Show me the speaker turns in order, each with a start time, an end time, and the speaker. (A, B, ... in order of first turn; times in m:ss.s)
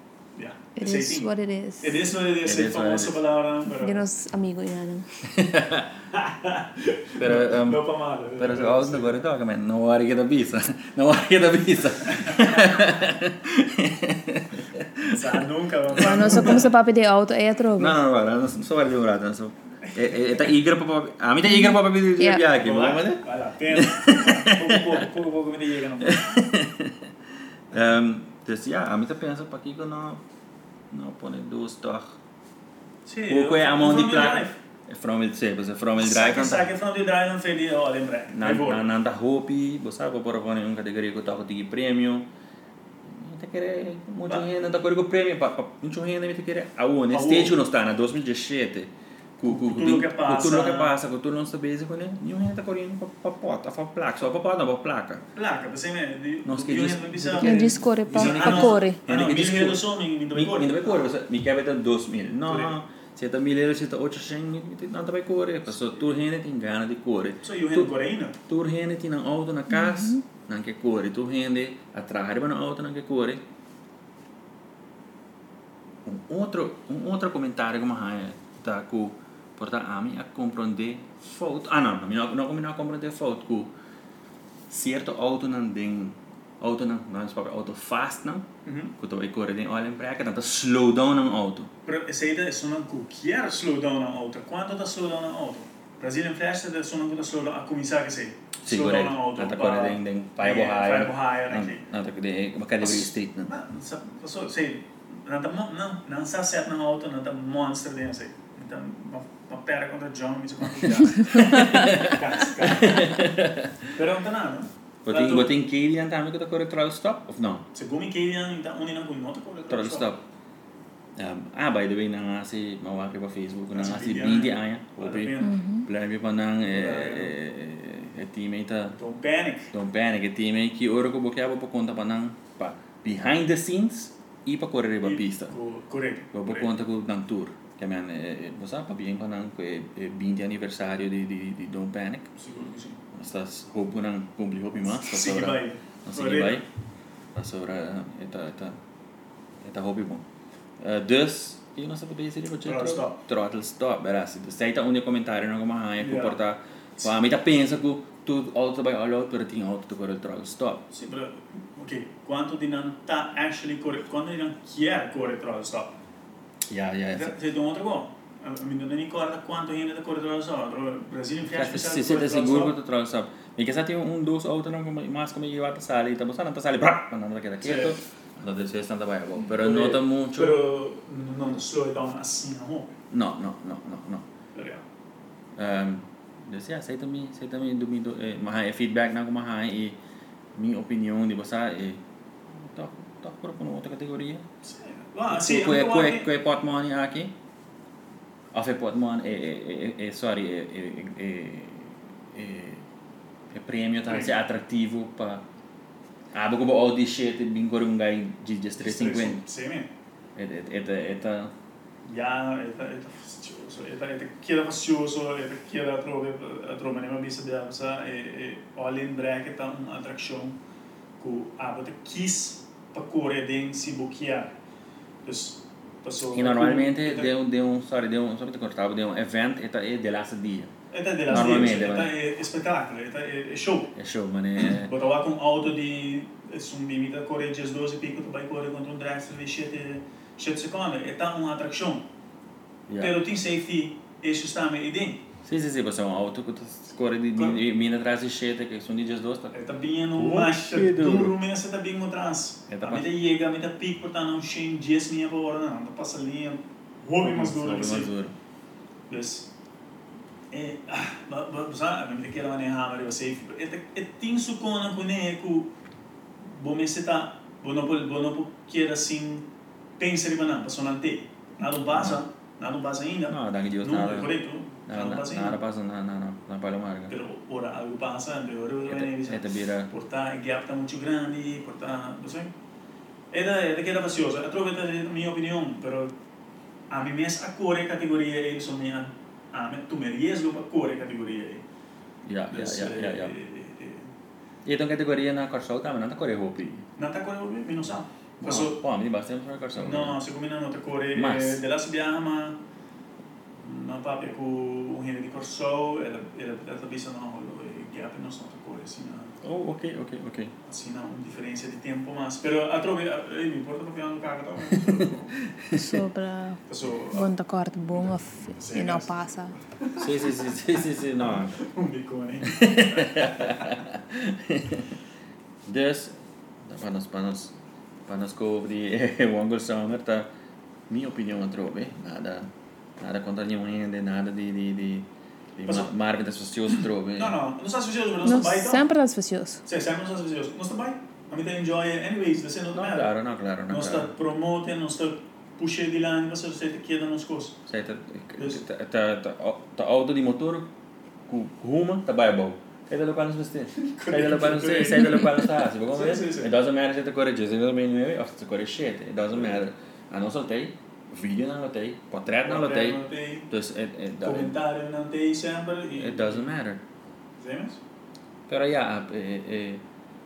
0:00.4-0:01.3 A
0:00.8-0:02.0 B
0:01.8-0:04.1 A
0:02.4-0:03.2 C
0:03.7-0:05.1 B
0:05.2-0:06.0 C
0:06.1-0:09.2 A
0:07.2-0:16.6 C
0:12.2-0:12.5 A
0:15.1-0:16.7 A
0:16.0-0:18.0 B
0:17.8-0:25.0 C
0:21.4-0:22.4 B
0:22.5-0:26.5 A
0:26.0-0:27.1 C
0:27.7-0:30.2 C
0:30.9-0:32.2 C
0:33.1-0:34.6 A
0:33.3-0:36.7 C
0:36.0-0:38.8 A
0:38.3-0:42.3 C
0:43.0-0:55.2 C
0:47.1-0:47.6 A
0:49.5-0:51.0 A
0:55.4-1:01.1 A
0:56.5-1:07.9 C
0:57.4-0:59.0 B
1:02.5-1:02.8 A
1:07.4-1:08.4 A
1:08.5-1:13.4 C
1:09.8-1:10.2 B
1:16.0-1:23.7 C
1:24.7-1:28.5 C
1:28.6-1:29.0 A
1:29.0-1:31.7 C
1:31.8-1:41.8 A
1:38.6-1:43.5 C
1:42.8-1:53.1 A
1:51.3-1:53.9 C
1:53.9-1:55.5 A
1:55.0-1:57.7 C
1:57.7-2:00.1 A
1:59.7-2:00.2 C
2:01.2-2:09.0 C
2:03.7-2:05.6 A
2:05.4-2:05.9 B
2:06.6-2:07.3 A
2:08.9-2:09.7 A
2:09.7-2:15.5 C
2:15.0-2:16.7 A
2:16.3-2:22.3 C
2:22.4-2:23.0 A
2:23.1-2:26.7 C
2:25.0-2:26.6 A
2:27.4-2:28.8 C
2:29.6-2:30.2 C
2:30.8-2:40.9 C
2:32.6-2:33.2 A
2:36.0-2:36.4 A
2:40.9-2:46.0 A
2:46.7-2:47.4 C
2:47.1-2:52.8 A
2:51.5-3:00.6 C
2:57.6-2:58.0 A
2:59.5-3:02.9 A
3:03.1-3:04.3 C
3:04.6-3:04.8 A
3:05.6-3:10.0 C
3:10.5-3:14.4 C
3:14.6-3:16.3 A
3:15.3-3:17.3 C
3:18.5-3:22.8 C
3:23.5-3:25.4 C
3:24.1-3:24.4 A
3:26.3-3:29.4 C
3:28.8-3:29.9 A
3:30.4-3:31.5 C
3:32.0-3:40.6 A
3:41.2-3:44.5 A
3:45.2-3:47.3 A
3:46.3-3:50.7 C
3:50.9-3:54.0 A
3:51.3-3:52.1 C
3:54.0-3:55.0 C
3:54.6-4:02.1 A
4:02.9-4:03.2 C
4:03.0-4:05.2 A
4:05.4-4:09.6 C
4:09.5-4:18.1 A
4:10.1-4:11.4 C
4:12.7-4:13.1 C
4:17.2-4:18.4 C
4:19.1-4:19.5 A
4:20.5-4:25.7 A
4:26.4-4:29.5 A
4:30.0-4:35.6 A
4:31.9-4:32.2 C
4:33.3-4:37.2 C
4:37.1-4:42.5 A
4:38.9-4:39.9 C
4:43.3-4:46.2 A
4:46.9-4:51.6 A
4:52.2-4:53.4 C
4:52.5-4:54.1 A
4:54.6-4:56.9 C
4:57.0-4:58.8 A
4:58.4-5:00.2 C
4:59.8-5:02.6 A
5:01.1-5:01.6 C
5:03.6-5:09.4 A
5:09.4-5:10.5 C
5:10.6-5:15.4 A
5:14.7-5:16.0 C
5:15.7-5:19.6 B
5:16.7-5:17.3 A
5:18.0-5:20.2 A
5:20.0-5:21.6 C
5:21.2-5:23.8 A
5:22.4-5:25.0 C
5:25.6-5:27.6 C
5:28.1-5:30.3 C
5:30.9-5:37.4 C
5:35.7-5:35.9 A
5:37.2-5:38.9 A
5:38.2-5:39.6 B
5:39.6-5:43.1 A
5:42.7-5:44.1 C
5:43.7-5:47.6 A
5:47.7-5:50.7 C
5:48.4-5:48.6 A
5:51.3-6:04.6 C
5:53.8-5:56.5 A
6:02.4-6:03.5 A
6:04.2-6:06.5 A
6:06.0-6:06.8 C
6:07.4-6:07.8 A
6:08.5-6:09.8 C